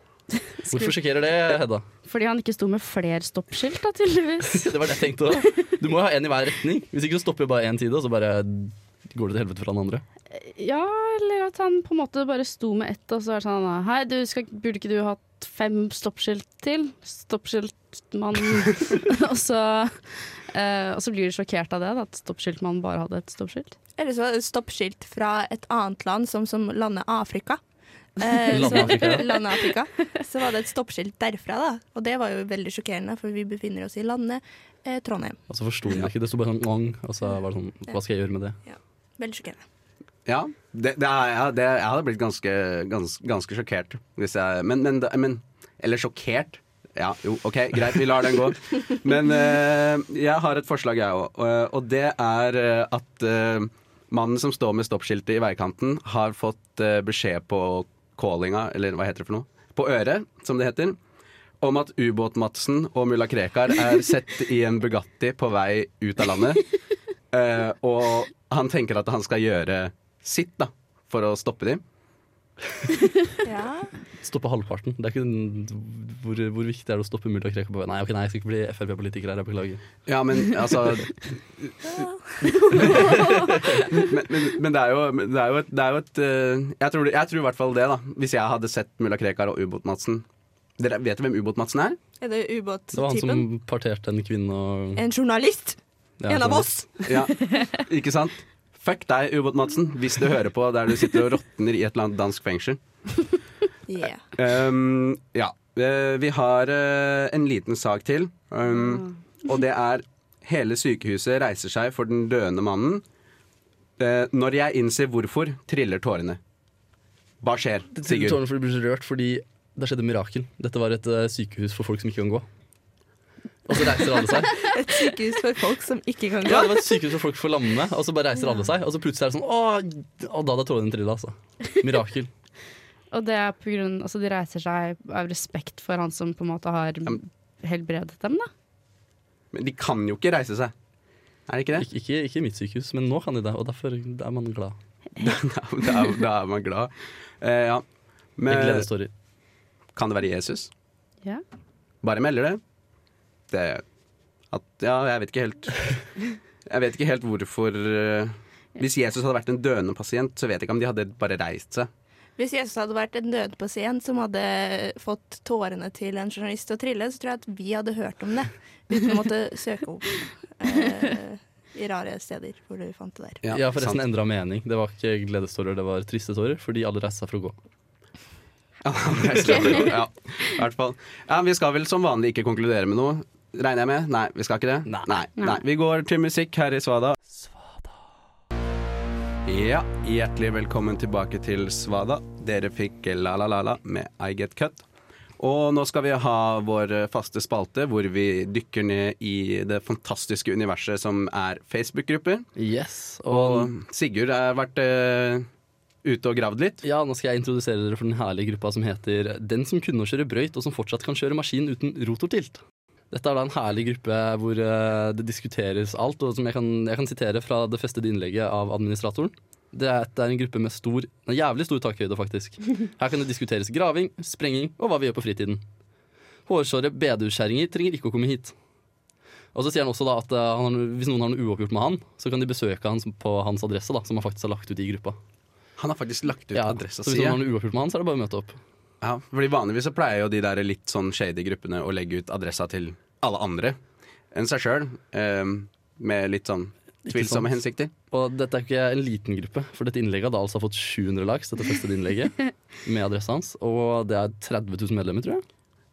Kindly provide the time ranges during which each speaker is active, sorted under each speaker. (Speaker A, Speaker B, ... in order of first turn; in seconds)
Speaker A: 0.6-0.9, 2.0-4.7, 10.3-20.0, 20.5-23.7, 28.7-29.1, 133.1-138.5
Speaker B: 0.7-1.9, 4.5-10.0, 28.5-29.4, 35.5-38.6, 74.2-79.8, 92.9-95.0, 96.2-96.7, 118.0-122.5, 123.7-124.6, 126.5-132.3, 141.8-144.8, 148.5-149.1, 173.5-177.6, 184.9-185.2, 202.6-203.7, 206.8-225.6, 226.5-228.6, 229.5-235.2, 236.5-238.6, 247.1-255.4
Speaker C: 24.0-27.6, 28.2-35.4, 38.6-39.6, 73.4-73.9, 81.9-83.7, 92.2-93.5, 95.0-97.6, 103.9-104.3, 124.6-126.9, 162.4-173.4, 179.4-179.9
Speaker D: 40.3-61.0, 61.6-66.6, 67.3-71.8, 80.1-82.1, 82.7-90.2, 90.8-92.0, 97.1-102.8, 104.3-113.0, 114.0-116.4, 117.4-118.4, 139.5-140.7, 141.5-141.9, 145.2-147.8, 148.4-148.9, 149.9-150.7, 152.0-152.6, 153.5-153.8, 154.5-156.0, 156.7-161.9, 173.4-174.0, 178.8-187.2, 189.4-194.8, 195.4-202.5, 203.3-205.5, 206.0-206.8, 235.8-237.4, 239.0-243.8, 244.3-247.9